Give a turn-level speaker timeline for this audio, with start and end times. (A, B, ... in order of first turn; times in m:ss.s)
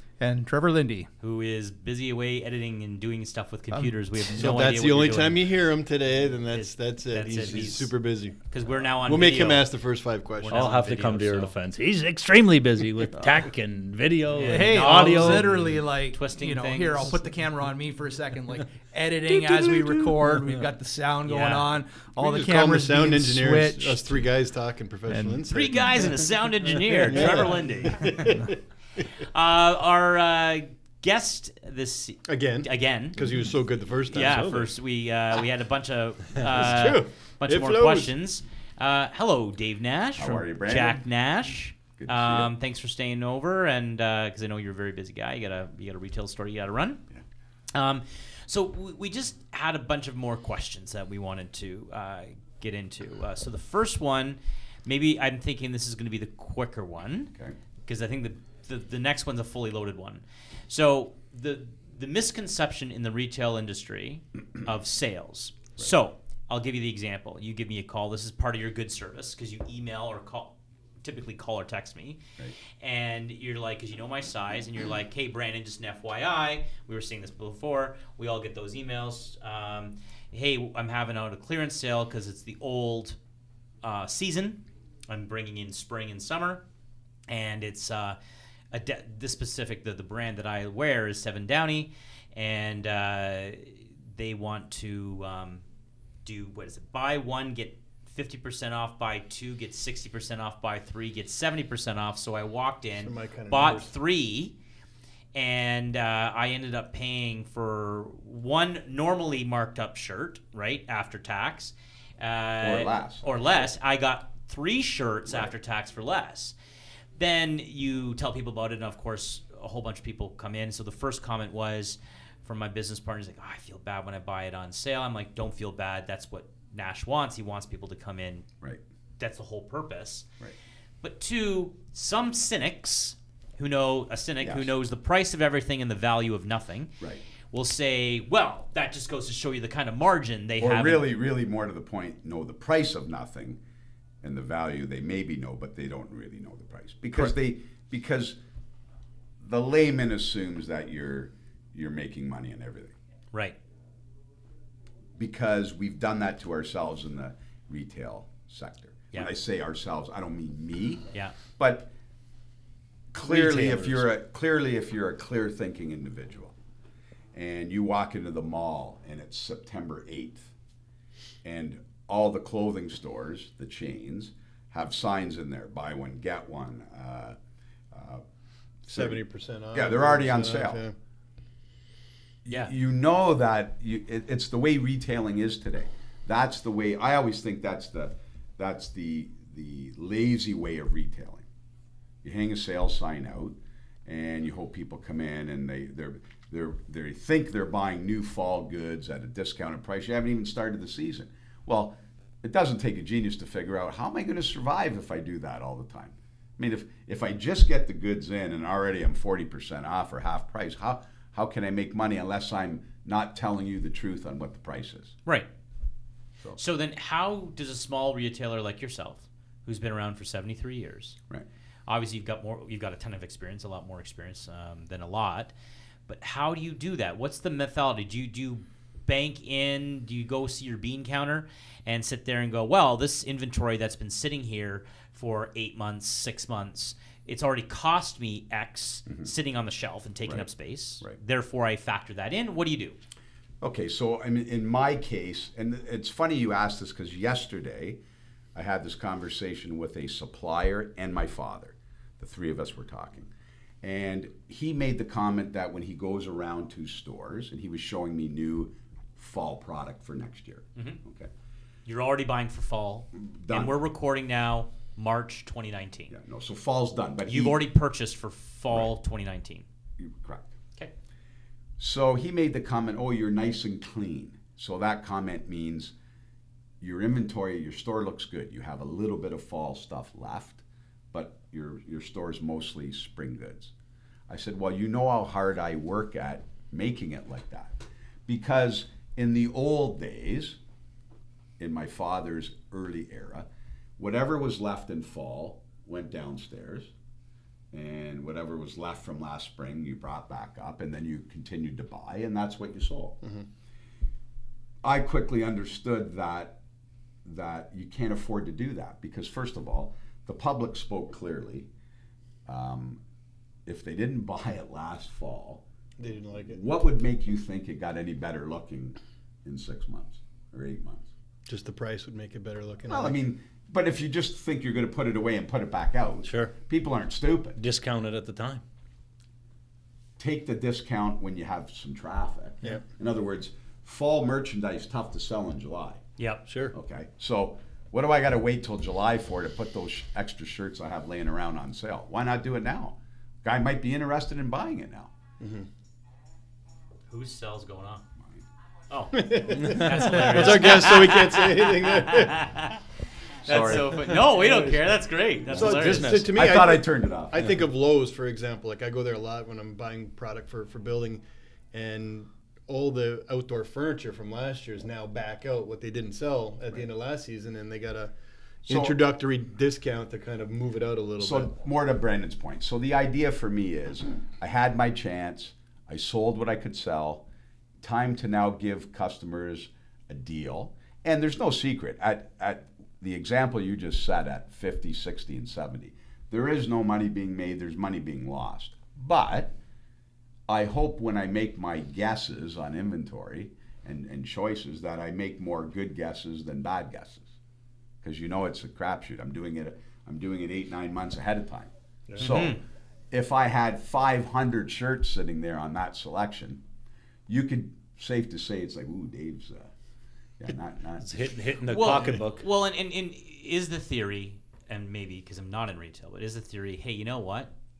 0:00.2-0:01.1 A
0:01.2-0:05.5 B
0:03.7-0:04.4 A
0:04.4-0:08.4 C
0:06.5-0:09.7 B
0:09.0-0:10.6 C
0:10.4-0:11.5 B
0:10.5-0:15.7 D
0:14.3-0:17.3 B
0:14.4-0:24.3 A
0:19.4-0:20.7 D
0:21.3-0:21.7 B
0:22.2-0:25.7 C
0:25.1-0:25.4 A
0:25.5-0:28.4 B
0:27.1-0:28.6 C
0:29.1-0:33.3 B
0:32.3-0:34.4 C
0:34.1-0:47.0 B
0:34.1-0:34.7 D
0:36.5-0:38.1 C
0:40.2-0:42.5 E
0:47.8-1:12.2 B
1:12.8-1:23.2 B
1:23.8-1:26.6 B
1:27.3-1:28.2 B
1:28.7-1:35.6 B
1:36.2-1:44.6 B
1:43.0-1:43.9 C
1:45.3-1:56.5 B
1:52.6-1:53.3 E
1:55.3-1:55.5 E
1:57.2-2:08.4 B
2:09.2-2:10.2 B
2:11.0-2:16.9 B
2:14.4-2:14.7 E
2:17.0-2:17.2 E
2:17.5-2:21.1 B
2:20.6-2:23.6 E
2:24.2-2:28.4 E
2:29.4-2:32.9 E
2:35.2-2:41.9 E
2:41.1-2:41.4 B
2:43.1-2:46.5 E
2:43.2-2:44.1 D
2:47.3-2:50.5 E
2:51.4-2:57.4 E
2:57.9-2:58.2 E
2:58.9-2:59.2 E
2:58.9-3:00.9 C
2:59.7-3:00.8 E
3:02.4-3:11.4 E
3:12.2-3:35.2 E
3:36.6-3:41.2 B
3:41.9-3:45.5 B
3:46.1-4:03.0 B
4:00.2-4:01.2 E
4:03.6-4:08.0 E
4:08.6-4:13.3 E
4:13.8-4:21.3 E
4:21.9-4:26.1 B
4:23.2-4:23.8 E
4:26.1-4:27.6 E
4:27.3-4:29.6 B
4:30.0-4:30.5 E
4:31.8-4:35.9 E
4:36.8-4:43.7 E
4:44.3-4:50.6 E
4:51.6-4:53.5 E
4:54.0-4:56.9 E
4:57.7-5:03.2 E
5:04.8-5:06.6 E
5:07.2-5:11.7 E
5:12.5-5:13.0 E
5:13.6-5:15.6 E
5:16.0-5:16.6 C
5:16.4-5:21.1 E
5:21.5-5:23.2 C
5:22.9-5:27.6 E
5:26.2-5:26.5 D
5:27.6-5:28.6 D
5:30.2-5:36.0 E
5:36.2-5:36.4 B
5:36.5-5:36.7 D
5:36.7-5:45.1 E
5:45.4-5:45.7 C
5:47.1-5:48.0 B
5:48.9-5:52.8 B
5:49.1-5:52.4 C
5:53.4-5:56.1 B
5:53.4-5:54.0 E
5:53.5-5:54.8 D
5:55.5-5:56.4 D
5:55.5-6:08.1 C
5:56.3-5:57.5 E
6:08.6-6:11.5 C
6:08.7-6:09.0 E
6:11.2-6:17.2 E
6:17.8-6:29.6 E
6:30.5-6:37.3 E
6:38.0-6:46.6 E
6:42.2-6:42.6 B
6:47.3-6:49.7 E
6:50.4-6:51.3 E
6:51.0-6:52.4 D
6:51.6-6:57.5 B